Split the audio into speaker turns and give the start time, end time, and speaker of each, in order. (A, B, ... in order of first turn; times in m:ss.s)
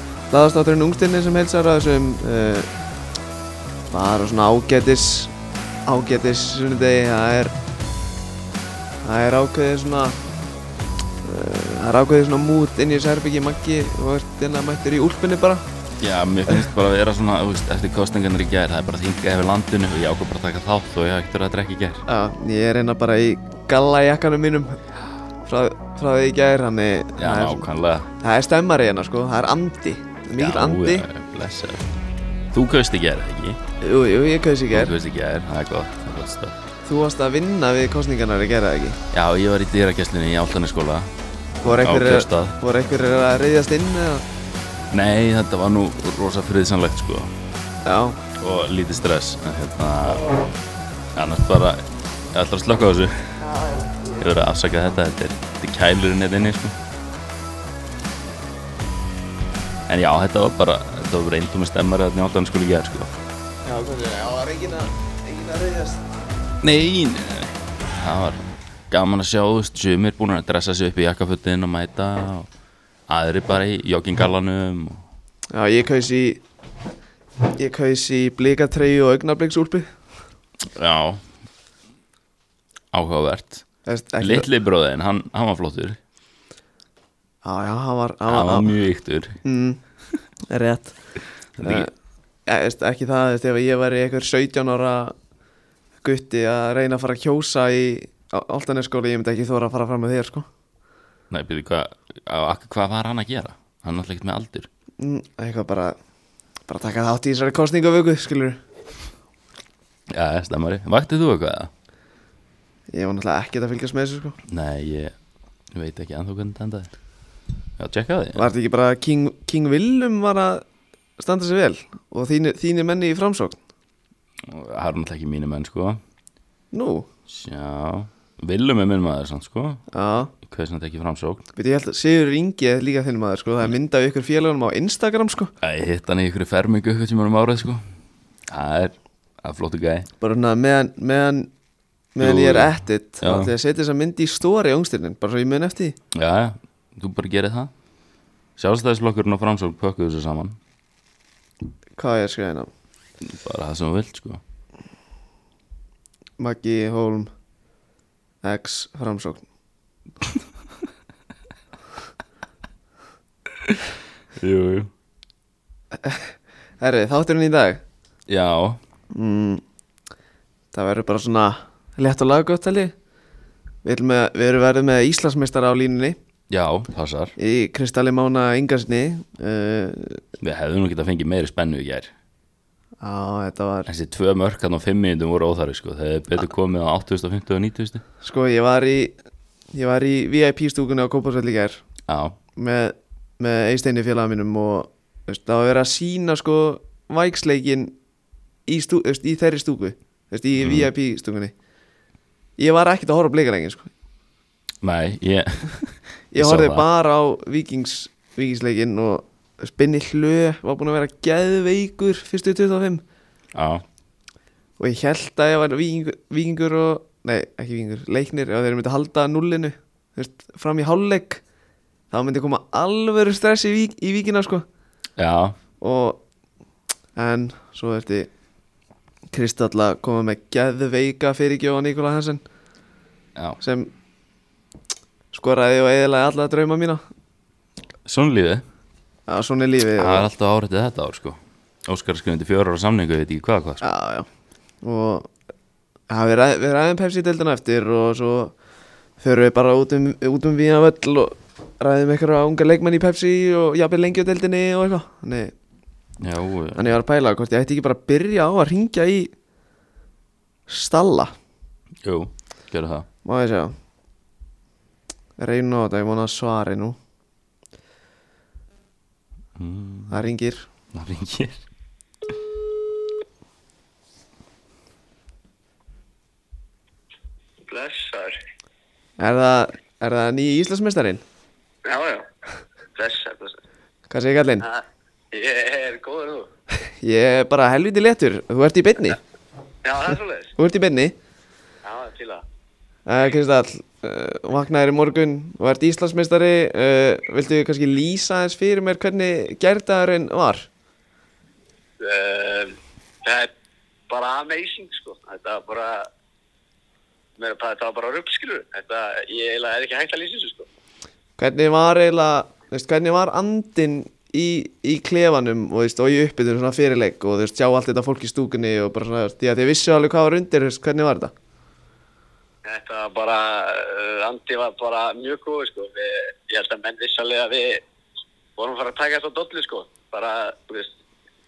0:00.3-0:02.7 A
0:03.9-0:05.3 A
0:05.8-0:07.5 A
0:09.0-0:10.2 A
0:11.2-0:15.6 A
0:16.0-0:22.0 B
0:22.1-0:24.8 A
0:25.4-0:27.6 A
0:27.2-0:28.1 B
0:28.2-0:31.0 A
0:30.4-0:31.9 B
0:32.5-0:33.6 B
0:33.8-0:34.9 A
0:34.7-0:36.6 B
0:36.8-0:39.0 A
0:39.1-0:41.1 B
0:41.6-0:44.2 A
0:41.8-0:42.6 B
0:44.9-0:47.3 B
0:47.8-0:48.2 A
0:48.4-0:50.3 B
0:51.1-0:53.4 B
0:54.2-0:56.8 B
0:59.9-1:03.1 B
1:03.6-1:06.0 A
1:06.6-1:12.5 B
1:13.1-1:15.0 B
1:15.5-1:16.4 A
1:17.5-1:19.9 A
1:20.7-1:21.2 B
1:22.9-1:23.6 B
1:23.8-1:24.4 A
1:24.2-1:26.0 B
1:27.4-1:28.7 A
1:28.3-1:29.4 B
1:29.4-1:29.8 A
1:30.5-1:30.9 A
1:31.6-1:31.9 B
1:31.6-1:31.9 A
1:32.5-1:35.1 A
1:36.0-1:40.5 A
1:41.3-1:44.7 B
1:45.0-1:46.0 A
1:46.7-1:48.6 A
1:50.1-1:51.7 B
1:52.9-1:54.4 A
1:54.5-1:55.1 B
1:55.7-1:56.9 B
1:57.8-1:58.5 B
1:58.4-2:00.6 A
2:01.2-2:03.6 A
2:04.4-2:06.0 B
2:06.7-2:07.1 A
2:07.3-2:09.8 B
2:09.9-2:10.3 A
2:10.4-2:11.4 B
2:11.6-2:15.5 A
2:15.6-2:17.8 B
2:18.5-2:20.1 B
2:20.2-2:21.5 A
2:22.2-2:26.0 A
2:22.2-2:23.5 B
2:26.1-2:27.7 B
2:28.6-2:30.6 B
2:32.0-2:32.7 A
2:33.2-2:34.4 B
2:36.4-2:37.3 A
2:38.4-2:39.4 A
2:44.4-2:44.9 B
2:45.9-2:47.8 A
2:48.3-2:48.8 B
2:49.1-2:49.6 A
2:50.7-2:52.9 A
2:53.8-2:56.2 A
2:56.5-2:57.3 B
2:57.4-3:00.2 A
3:00.4-3:02.1 B
3:03.0-3:03.9 A
3:03.9-3:08.0 B
3:08.2-3:09.1 A
3:09.7-3:11.8 A
3:12.1-3:12.4 B
3:12.6-3:18.0 A
3:18.7-3:21.5 A
3:20.6-3:20.9 B
3:22.6-3:23.9 A
3:24.8-3:26.8 B
3:26.3-3:33.0 A
3:33.5-3:33.8 B
3:34.8-3:41.4 A
3:42.1-3:44.6 A
3:45.2-3:45.6 B
3:45.8-3:46.2 A
3:47.1-3:48.3 A
3:49.3-3:52.4 A
3:53.6-3:53.9 A
3:55.3-3:57.0 A
3:58.0-3:58.6 B
3:59.3-4:00.3 A
4:00.0-4:03.8 B
4:03.8-4:04.3 A
4:04.8-4:05.3 A
4:06.1-4:08.5 A
4:09.2-4:15.5 A
4:16.2-4:16.8 B
4:16.7-4:19.3 A
4:20.7-4:21.3 A
4:22.0-4:23.1 B
4:23.2-4:23.7 A
4:25.4-4:27.0 A
4:29.6-4:30.3 B
4:30.1-4:30.7 A
4:30.9-4:31.6 B
4:37.6-4:38.4 C
4:39.2-4:41.2 A
4:41.8-4:42.3 C
4:43.0-4:43.6 C
4:44.1-4:44.7 A
4:44.6-4:46.5 C
4:46.9-4:49.2 A
4:49.8-4:50.5 C
4:50.6-4:51.1 A
4:51.8-4:52.4 C
4:53.0-5:00.7 A
5:02.0-5:03.5 C
5:04.1-5:06.1 C
5:07.4-5:10.7 C
5:11.4-5:21.3 A
5:22.6-5:27.8 C
5:28.6-5:30.9 C